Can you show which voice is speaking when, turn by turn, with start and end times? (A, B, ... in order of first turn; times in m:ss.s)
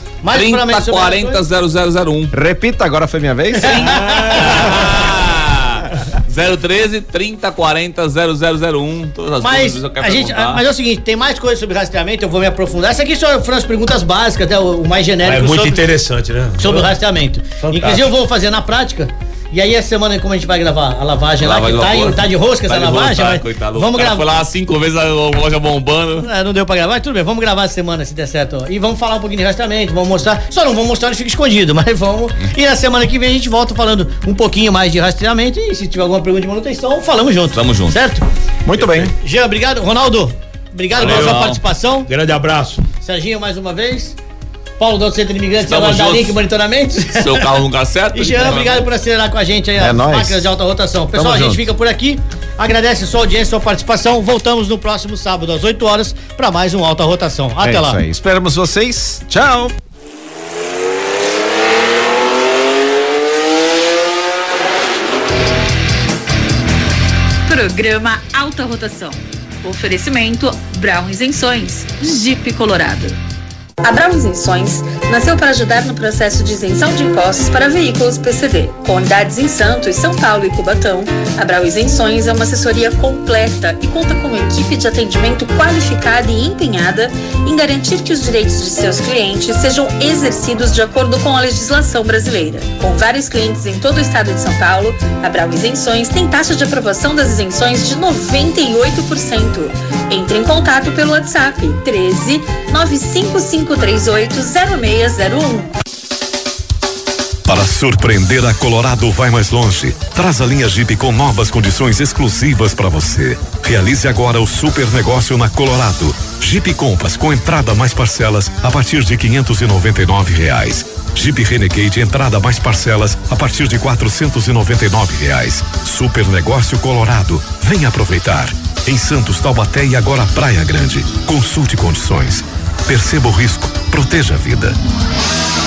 0:00.2-0:01.4 A
0:00.3-0:02.3 B
0:02.3-0:05.1 C
0:03.6-0:04.9 A
0:03.7-0:10.6 B
0:09.4-0:15.8 A
0:15.2-0:17.0 D
0:16.6-0:24.3 A
0:17.6-0:18.1 D
0:21.4-0:26.3 B
0:26.2-0:38.3 A
0:37.6-0:38.0 B
0:38.6-0:39.1 C
0:39.2-0:42.1 A
0:41.0-0:41.6 B
0:41.0-0:41.5 D
0:42.1-0:42.8 D
0:43.0-0:44.2 A
0:44.8-0:47.5 A
0:45.6-0:46.4 B
0:47.2-0:48.9 B
0:48.1-0:58.0 A
0:49.8-0:50.5 C
0:51.1-0:51.7 C
0:57.6-0:59.8 C
1:07.5-1:13.2 E
1:13.8-1:45.7 E
1:47.5-2:14.8 F